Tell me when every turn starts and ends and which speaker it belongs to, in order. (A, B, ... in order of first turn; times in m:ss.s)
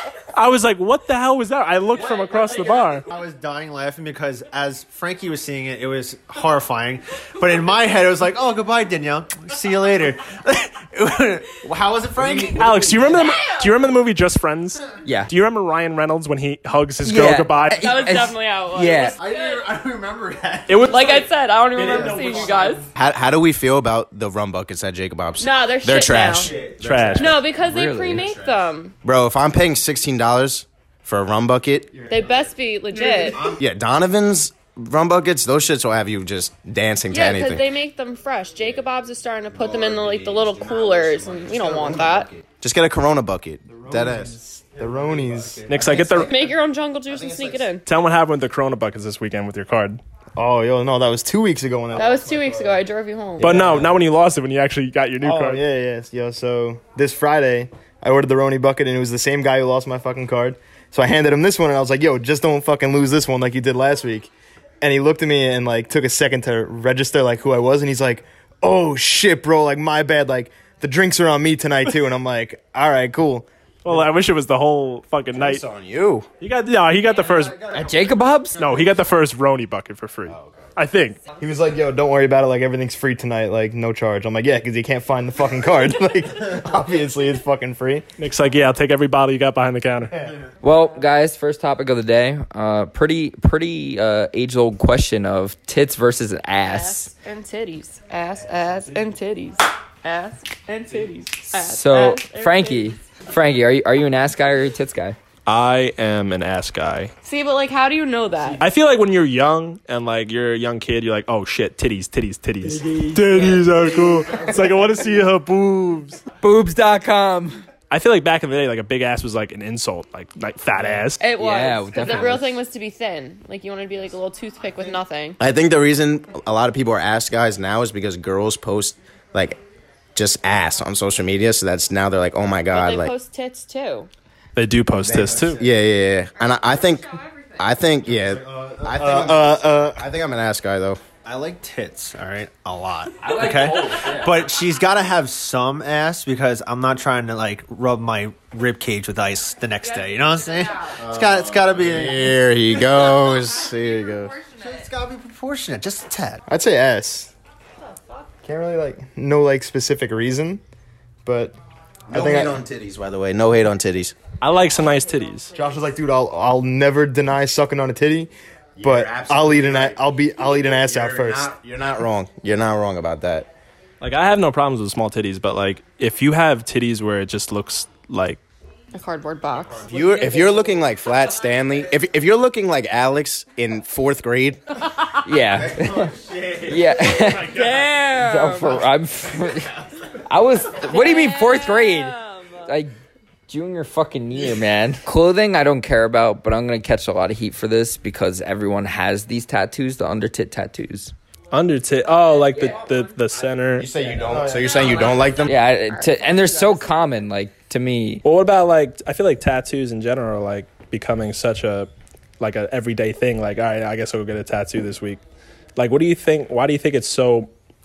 0:00.3-0:03.0 A
0:01.9-0:13.1 B
0:12.2-0:12.8 C
0:12.5-0:18.2 A
0:13.1-0:13.7 D
0:15.0-0:15.3 E
0:17.0-0:19.2 E
0:17.8-0:19.6 D
0:18.8-0:22.9 B
0:20.7-0:22.9 A
0:20.9-0:22.9 D
0:22.9-0:27.4 C
0:25.4-0:26.5 D
0:26.3-0:27.0 B
0:26.8-0:27.4 A
0:27.2-0:28.9 D
0:27.6-0:28.3 E
0:28.1-0:32.1 C
0:31.9-0:32.5 B
0:32.1-0:33.5 D
0:33.4-0:37.7 C
0:37.1-0:42.3 D
0:39.5-0:44.3 C
0:43.7-0:46.3 B
0:44.7-0:45.6 F
0:45.7-0:46.3 A
0:45.9-0:46.4 C
0:46.1-0:47.8 D
0:47.1-0:47.7 C
0:47.8-0:50.0 A
0:50.4-0:52.8 F
0:51.9-0:53.7 D
0:53.4-0:55.6 A
0:53.4-0:54.0 F
0:55.2-1:04.3 F
1:04.8-1:13.5 F
1:13.8-1:15.6 A
1:15.3-1:16.3 C
1:16.4-1:17.7 A
1:17.0-1:19.0 B
1:17.7-1:18.7 E
1:18.6-1:21.2 A
1:20.3-1:20.7 C
1:21.4-1:28.0 F
1:28.2-1:30.3 A
1:30.2-1:30.5 B
1:30.6-1:37.1 E
1:36.6-1:43.2 D
1:41.5-1:45.2 E
1:45.4-1:47.1 A
1:47.2-1:48.6 D
1:48.5-1:56.2 A
1:56.4-1:57.6 E
1:57.9-2:01.2 A
2:01.2-2:05.4 D
2:01.3-2:02.5 E
2:02.0-2:02.4 C
2:05.4-2:09.6 C
2:10.1-2:13.1 C
2:12.7-2:14.1 D
2:14.5-2:15.6 A
2:15.0-2:21.0 C
2:15.1-2:15.8 B
2:16.4-2:17.7 D
2:18.0-2:19.3 B
2:18.9-2:20.0 F
2:21.2-2:32.4 B
2:23.2-2:24.5 E
2:29.8-2:31.0 D
2:31.0-2:34.4 C
2:33.2-2:34.9 D
2:34.6-2:36.4 B
2:36.5-2:37.3 F
2:37.8-2:38.3 D
2:38.4-2:40.6 F
2:41.2-2:41.6 F
2:42.1-2:44.2 C
2:42.1-2:42.6 F
2:44.4-2:45.5 A
2:45.6-2:48.3 F
2:48.8-2:53.5 C
2:48.8-2:51.5 F
2:54.0-2:58.4 A
2:58.9-2:59.9 D
2:59.6-3:00.9 B
2:59.8-3:04.8 C
3:05.2-3:07.6 E
3:05.5-3:07.9 B
3:07.3-3:08.8 D
3:08.1-3:12.9 E
3:09.3-3:09.9 B
3:10.7-3:12.7 D
3:13.5-3:21.1 E
3:21.5-3:23.9 A
3:22.5-3:23.0 D
3:22.5-3:23.4 E
3:23.8-3:25.6 C
3:24.3-3:24.8 F
3:24.6-3:26.9 D
3:25.4-3:28.2 E
3:28.2-3:35.2 A
3:35.8-3:37.5 A